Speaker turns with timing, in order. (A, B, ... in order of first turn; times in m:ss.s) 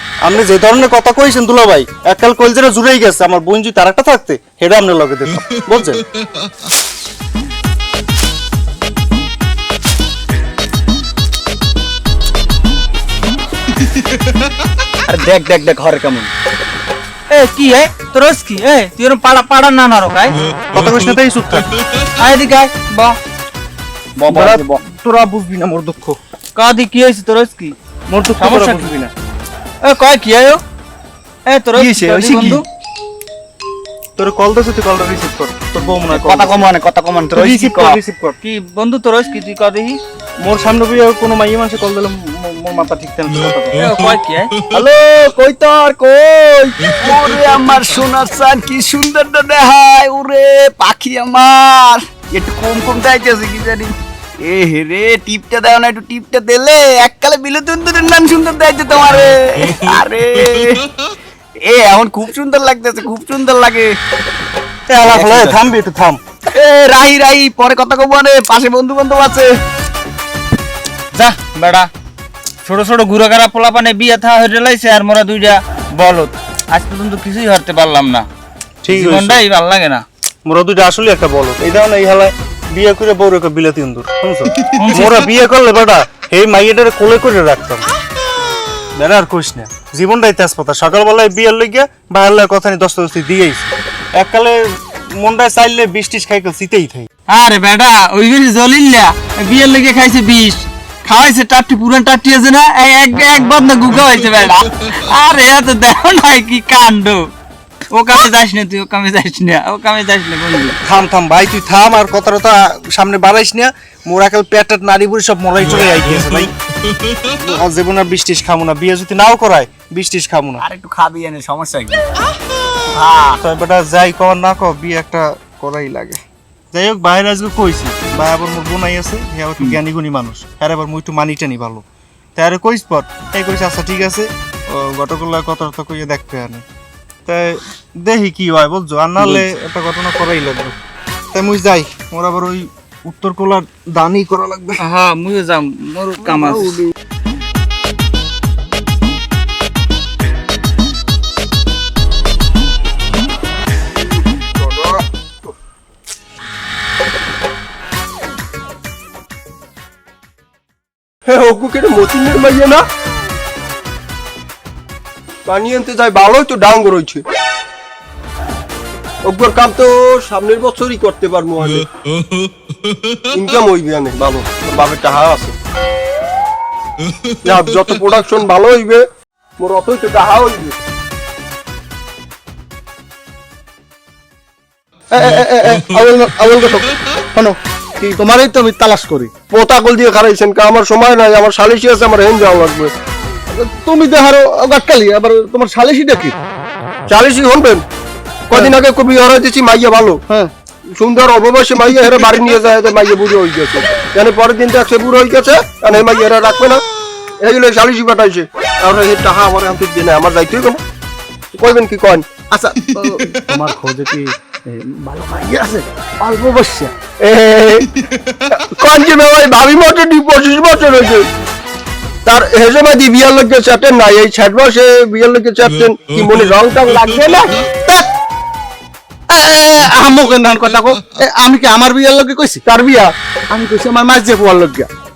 0:00.2-0:06.0 A
0:15.0-0:16.3 B
0:17.3-0:20.4 C
0:20.7-0:21.6 A
0:22.2-0:23.2 C
0:24.2-0:24.8 C
0:24.3-0:26.2 A
0:26.6-0:27.8 C
0:28.1-0:29.1 A
0:28.4-0:28.9 C
0:29.8-0:30.6 C
0:31.4-0:32.6 C
0:31.7-0:32.6 A
0:34.2-0:36.7 A
0:36.1-0:37.8 B
0:37.3-0:38.4 A
0:37.5-0:40.0 C
0:40.4-0:43.8 A
0:43.8-0:44.6 C
0:44.7-1:00.8 B
1:01.6-1:04.0 B
1:04.9-1:06.2 A
1:06.5-1:09.6 B
1:11.1-1:11.9 C
1:12.6-1:18.3 C
1:18.8-1:19.4 A
1:18.9-1:20.0 C
1:20.4-1:27.8 A
1:24.7-1:25.3 C
1:28.9-1:37.1 A
1:37.3-1:47.3 C
1:47.9-1:50.8 C
1:50.8-1:56.5 A
1:57.3-2:00.6 A
2:00.6-2:02.0 B
2:02.9-2:03.2 B
2:03.4-2:06.2 A
2:06.7-2:11.8 A
2:12.4-2:16.6 A
2:17.2-2:20.7 A
2:19.2-2:19.4 C
2:21.3-2:24.8 A
2:24.8-2:26.9 C
2:34.4-2:35.0 D
2:41.2-2:42.8 D
2:45.4-2:47.2 D
2:49.2-2:51.9 D
2:53.3-2:55.5 D
2:57.4-2:59.0 D
2:59.6-3:00.8 D
3:05.1-3:09.3 E
3:09.5-3:12.9 D
3:13.5-3:16.4 E
3:17.1-3:17.8 D
3:18.5-3:20.2 D
3:20.9-3:26.8 D
3:27.4-3:30.8 D
3:31.5-3:32.2 D
3:32.5-3:36.9 E
3:37.2-3:37.9 D
3:38.5-3:41.2 D
3:42.2-3:47.5 D
3:49.3-3:54.9 E